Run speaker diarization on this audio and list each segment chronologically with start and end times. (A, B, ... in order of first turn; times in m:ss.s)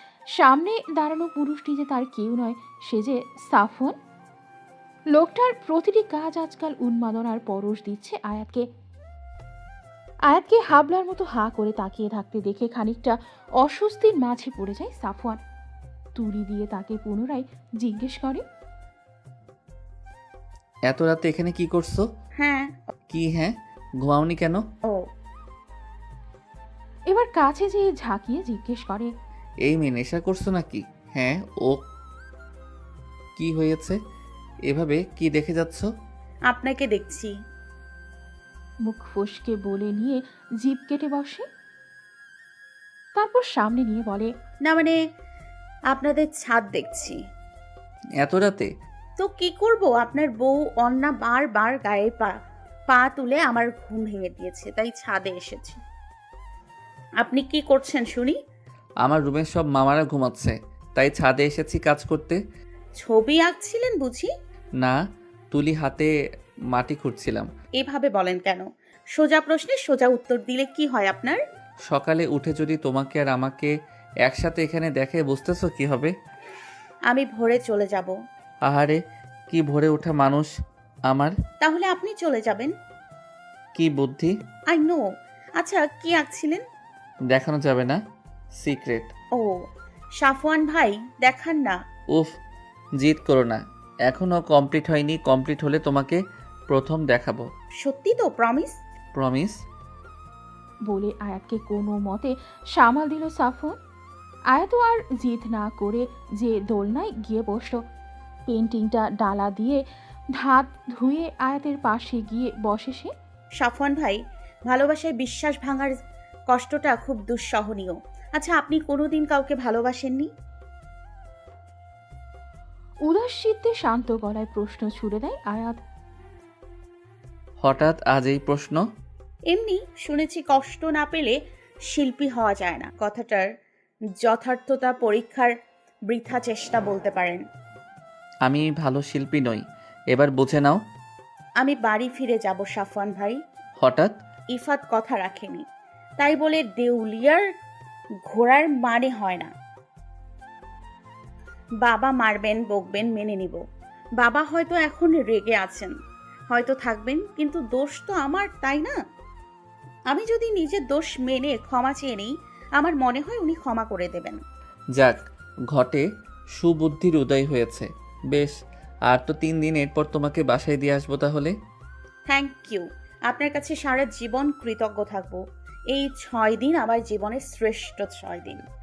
0:00.4-0:04.0 A
0:05.1-0:08.6 A
0:10.3-0:15.4 A
0:16.2-0:18.4 A
0:20.9-0:22.1 B
0:22.4-0:22.9 C
0:23.1-0:24.6 B
0:27.1-0:29.1 A
0:29.6-0:31.8 B
0:33.4-0:34.0 B
0:34.7-0:35.9 B
0:36.5-0:37.4 C
0:38.9-0:41.5 A
0:43.2-0:44.3 A
0:44.6-0:45.0 C
0:45.9-0:47.2 C
0:48.2-0:48.7 B
0:49.2-0:52.4 C
0:52.9-0:55.8 C
0:57.2-0:58.4 C
0:59.0-1:02.4 B
1:03.0-1:04.3 C
1:05.5-1:06.1 B
1:06.7-1:07.5 B
1:07.8-1:11.4 C
1:11.9-1:13.7 B
1:14.2-1:16.1 B
1:17.1-1:18.1 C
1:18.6-1:20.5 B
1:21.1-1:21.4 B
1:21.6-1:22.7 C
1:23.8-1:24.4 B
1:24.7-1:25.0 C
1:25.6-1:26.6 C
1:27.3-1:28.0 B
1:28.6-1:29.1 B
1:29.4-1:29.6 C
1:30.2-1:31.8 C
1:33.0-1:37.5 B
1:37.8-1:38.8 C
1:39.1-1:39.6 B
1:40.9-1:43.8 A
1:44.5-1:47.8 A
1:48.5-1:49.8 A
1:50.4-1:53.1 A
1:53.6-1:56.0 C
1:56.5-2:00.3 C
2:03.0-2:05.8 A
2:07.6-2:08.8 B
2:09.5-2:11.4 C
2:11.9-2:13.5 C
2:14.2-2:15.5 C
2:16.1-2:17.4 C
2:18.4-2:20.8 B
2:21.6-2:23.4 C
2:23.8-2:24.2 B
2:24.5-2:25.6 C
2:26.2-2:27.5 C
2:28.3-2:29.5 C
2:31.8-2:33.6 C
2:34.2-2:35.9 C
2:36.5-2:38.9 C
2:40.1-2:44.4 C
2:45.7-2:46.0 B
2:46.6-2:48.5 B
2:49.1-2:51.5 B
2:52.3-2:55.4 C
2:55.9-2:58.6 C